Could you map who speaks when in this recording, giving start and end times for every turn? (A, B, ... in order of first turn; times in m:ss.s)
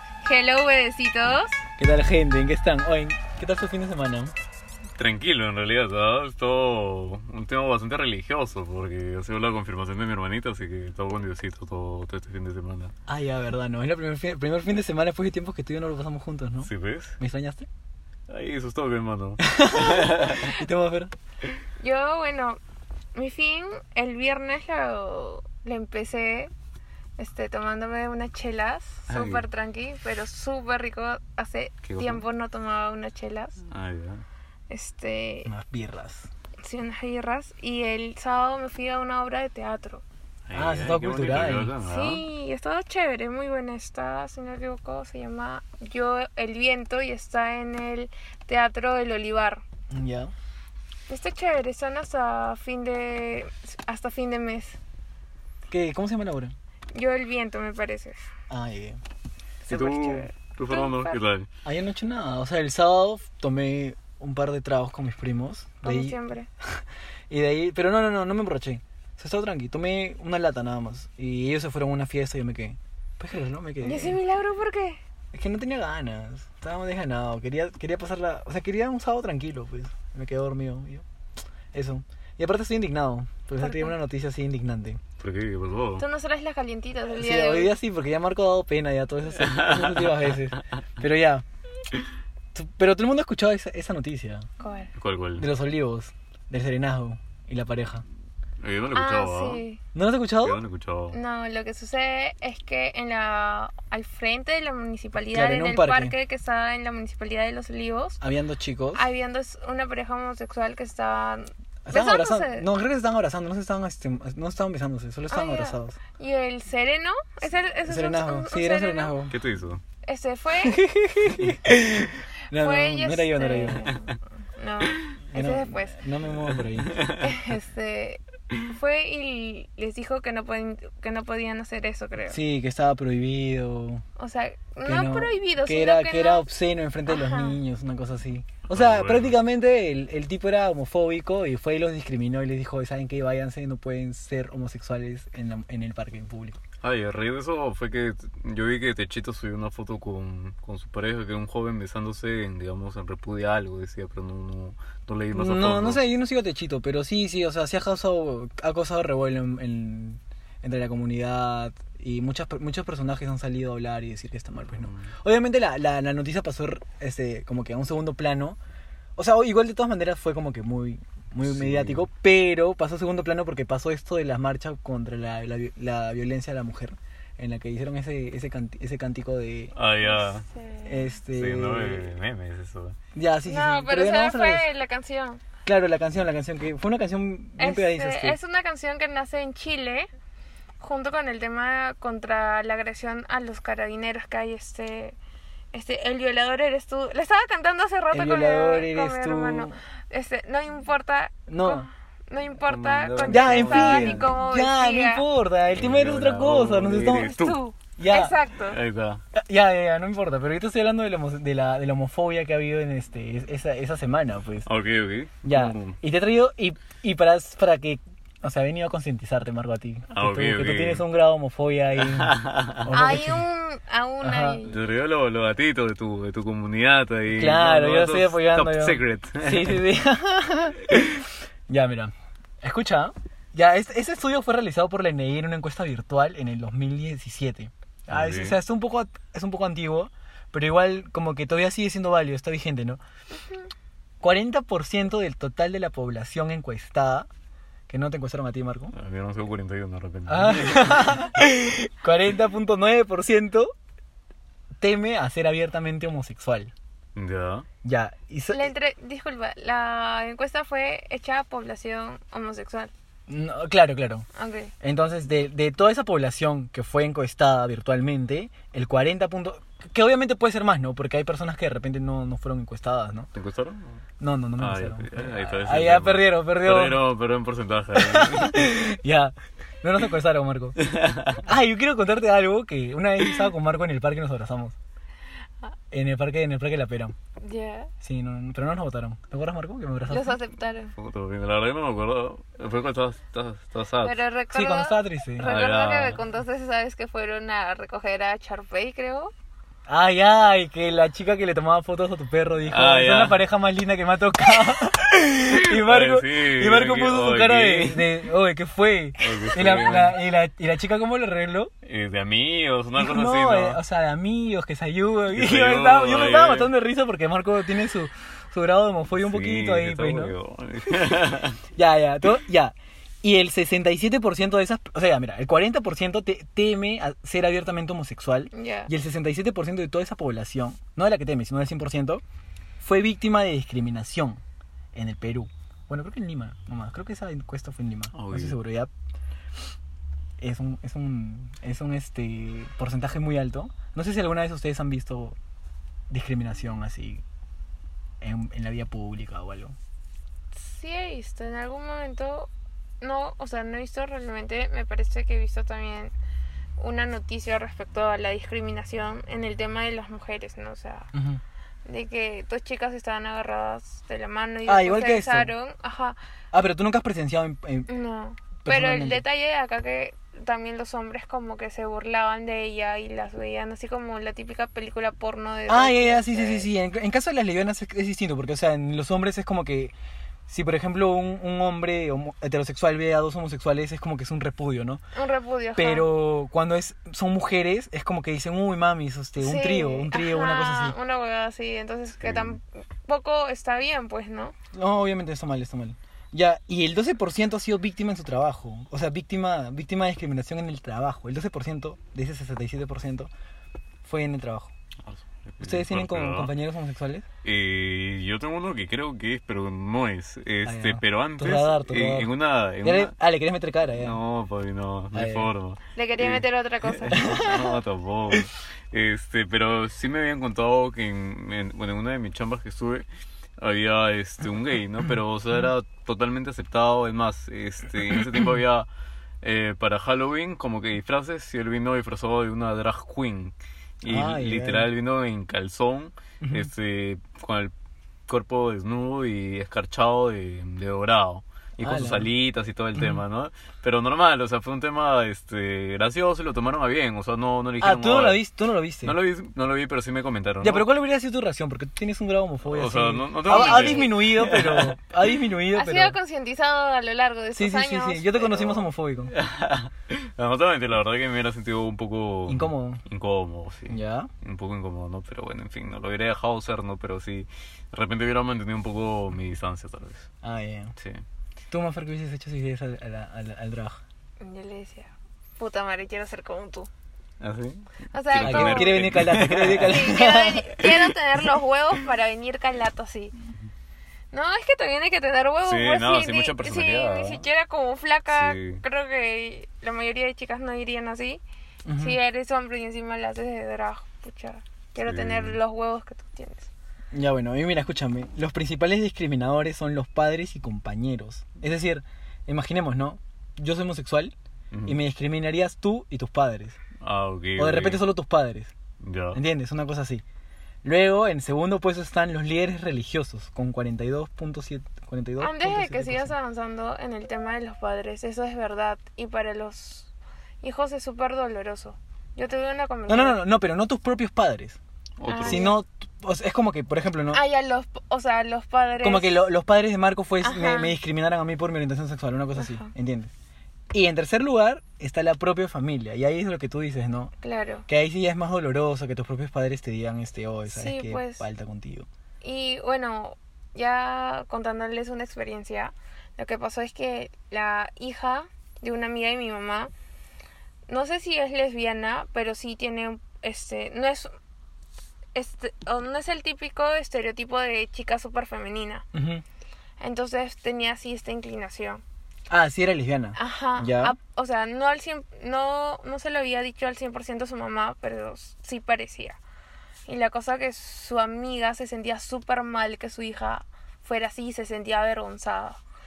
0:00.2-0:01.6 A
0:01.8-0:04.3 B
0:05.0-0:12.9 C
0:13.1-0:17.7 B
0:16.6-0:17.2 C
0:18.3-0:20.4 C
0:19.4-0:21.1 B
0:21.8-0:22.6 A
0:23.2-0:26.5 A
0:27.2-0:33.6 A
0:29.1-0:29.4 C
0:31.8-0:32.2 C
0:33.7-0:34.2 C
0:34.7-0:35.5 A
0:35.4-0:36.3 B
0:36.6-0:40.0 A
0:40.5-0:42.2 C
0:40.5-0:41.7 B
0:41.8-0:49.6 A
0:49.9-0:50.3 B
0:51.1-0:54.8 A
0:55.7-0:56.5 B
0:56.9-0:58.3 A
0:58.5-0:59.0 B
0:59.7-1:01.2 A
0:59.7-1:01.5 C
1:01.6-1:14.2 B
1:05.8-1:06.5 A
1:13.8-1:15.0 A
1:15.3-1:21.0 B
1:21.7-1:25.0 B
1:23.6-1:23.9 A
1:25.2-1:26.0 C
1:26.0-1:27.7 A
1:27.1-1:31.4 B
1:29.5-1:30.1 C
1:32.5-1:34.5 B
1:34.6-1:34.9 A
1:35.0-1:35.5 C
1:35.4-1:38.0 B
1:38.6-1:39.6 C
1:38.9-1:39.8 A
1:40.0-1:40.6 B
1:40.4-1:41.2 C
1:41.1-1:48.2 A
1:45.3-1:46.1 B
1:48.2-1:49.1 B
1:48.9-1:52.7 A
1:51.9-1:56.0 B
1:55.3-1:59.2 A
1:57.9-1:59.4 B
1:59.3-1:59.8 C
2:00.0-2:00.9 A
2:00.6-2:03.9 B
2:02.6-2:06.0 A
2:05.3-2:07.0 B
2:06.7-2:07.2 C
2:07.2-2:12.4 A
2:12.3-2:14.0 B
2:14.2-2:16.4 A
2:14.8-2:26.6 B
2:17.1-2:17.6 A
2:18.7-2:19.3 C
2:26.8-2:36.0 C
2:35.3-2:48.6 B
2:44.8-2:45.1 C
2:49.2-2:59.8 B
2:51.4-2:52.1 C
2:59.8-3:00.4 C
3:00.1-3:01.1 A
3:00.8-3:02.1 B
3:01.3-3:03.0 C
3:03.2-3:04.7 B
3:03.5-3:05.4 A
3:05.6-3:08.4 B
3:07.6-3:10.1 A
3:10.8-3:15.2 A
3:15.7-3:25.3 A
3:18.1-3:19.8 B
3:21.5-3:21.9 B
3:22.7-3:24.4 C
3:23.3-3:28.4 B
3:25.7-3:27.6 C
3:27.2-3:28.8 A
3:28.7-3:29.2 C
3:29.3-3:34.7 B
3:34.7-3:36.0 C
3:35.4-3:43.4 B
3:40.1-3:41.0 C
3:42.1-3:42.9 C
3:42.9-3:44.7 A
3:44.2-3:44.6 B
3:44.7-3:49.8 C
3:47.3-4:03.0 B
3:58.1-3:58.6 C
4:04.2-4:07.3 B
4:07.9-4:08.9 B
4:08.9-4:11.3 C
4:10.3-4:13.7 B
4:14.8-4:16.7 B
4:17.2-4:17.7 C
4:17.8-4:18.7 B
4:18.5-4:22.9 A
4:23.3-4:24.3 B
4:24.4-4:24.7 A
4:24.8-4:33.3 B
4:33.3-4:34.0 C
4:34.2-4:37.0 B
4:34.6-4:38.6 C
4:38.0-4:40.8 B
4:40.8-4:41.4 C
4:41.4-4:44.8 B
4:45.9-4:47.2 B
4:47.4-4:47.9 A
4:48.0-4:50.4 B
4:50.1-4:50.9 A
4:51.0-4:54.2 C
4:54.0-4:59.3 A
4:54.5-4:55.5 B
4:55.4-4:56.2 C
4:59.9-5:11.7 B
5:02.7-5:03.4 C
5:05.5-5:08.2 C
5:09.2-5:10.2 C
5:11.8-5:13.8 C
5:13.0-5:20.3 B
5:15.3-5:16.7 C
5:19.2-5:21.6 C
5:21.8-5:32.2 B
5:28.5-5:28.9 A
5:32.8-5:34.4 B
5:34.9-5:38.9 B
5:38.1-5:38.6 C
5:40.4-5:45.4 B
5:46.1-5:47.2 B
5:48.2-5:49.8 B
5:50.5-5:52.5 A
5:53.0-5:56.1 A
5:56.8-6:01.1 A
6:01.1-6:01.4 B
6:01.9-6:06.2 A
6:04.6-6:05.5 B
6:06.5-6:07.9 B
6:07.9-6:16.7 A
6:08.6-6:09.2 B
6:15.7-6:19.9 B
6:20.5-6:25.0 B
6:25.1-6:26.1 A
6:25.8-6:31.0 B
6:29.4-6:34.6 A
6:32.2-6:32.6 C
6:34.7-6:43.3 B
6:44.0-6:44.7 B
6:45.1-6:46.5 C
6:45.6-6:47.3 B
6:47.4-6:53.1 C
6:50.6-6:52.3 B
6:52.8-6:54.2 B
6:54.0-7:03.1 C
6:55.1-6:55.5 B
6:55.9-6:57.7 A
6:57.1-6:57.6 B
7:03.6-7:08.9 C
7:09.4-7:17.7 C
7:14.1-7:14.9 B
7:16.4-7:16.7 B
7:18.3-7:28.4 C
7:21.8-7:22.3 B
7:23.0-7:23.2 B
7:27.8-7:29.2 B
7:29.0-7:30.9 C
7:30.6-7:36.2 B
7:32.6-7:35.0 C
7:33.5-7:34.1 A
7:35.7-7:38.8 A
7:37.6-7:39.3 B
7:39.3-7:50.3 C
7:42.5-7:43.0 B
7:43.9-7:44.3 B
7:50.4-7:51.0 B
7:51.7-7:54.0 B
7:54.4-7:56.9 A
7:57.4-8:00.1 C
7:58.1-7:59.1 A
7:58.4-8:00.8 B
7:59.8-8:03.3 A
8:04.3-8:11.4 A
8:05.6-8:07.4 C
8:08.3-8:08.8 C
8:11.8-8:12.2 B
8:12.0-8:16.7 A
8:15.0-8:15.6 C
8:17.1-8:24.3 B
8:24.7-8:25.0 C
8:24.9-8:26.8 B
8:27.0-8:28.0 C
8:27.6-8:28.7 B
8:29.0-8:29.4 C
8:29.3-8:30.2 B
8:30.8-8:36.3 B
8:35.4-8:43.4 A
8:43.1-8:44.8 B
8:45.2-8:45.7 C
8:45.3-8:45.8 A
8:45.4-8:47.4 B
8:47.3-8:49.4 A
8:49.0-8:53.3 B
8:50.4-8:51.0 A
8:52.6-8:52.9 A
8:53.9-8:57.3 B
8:57.4-8:57.9 A
8:57.9-9:02.1 B
9:00.7-9:01.4 A
9:02.4-9:09.9 A
9:10.9-9:14.3 A
9:15.4-9:19.0 A
9:19.1-9:19.4 B
9:20.0-9:22.0 A
9:22.5-9:24.2 B
9:23.4-9:29.4 A
9:30.1-9:35.8 A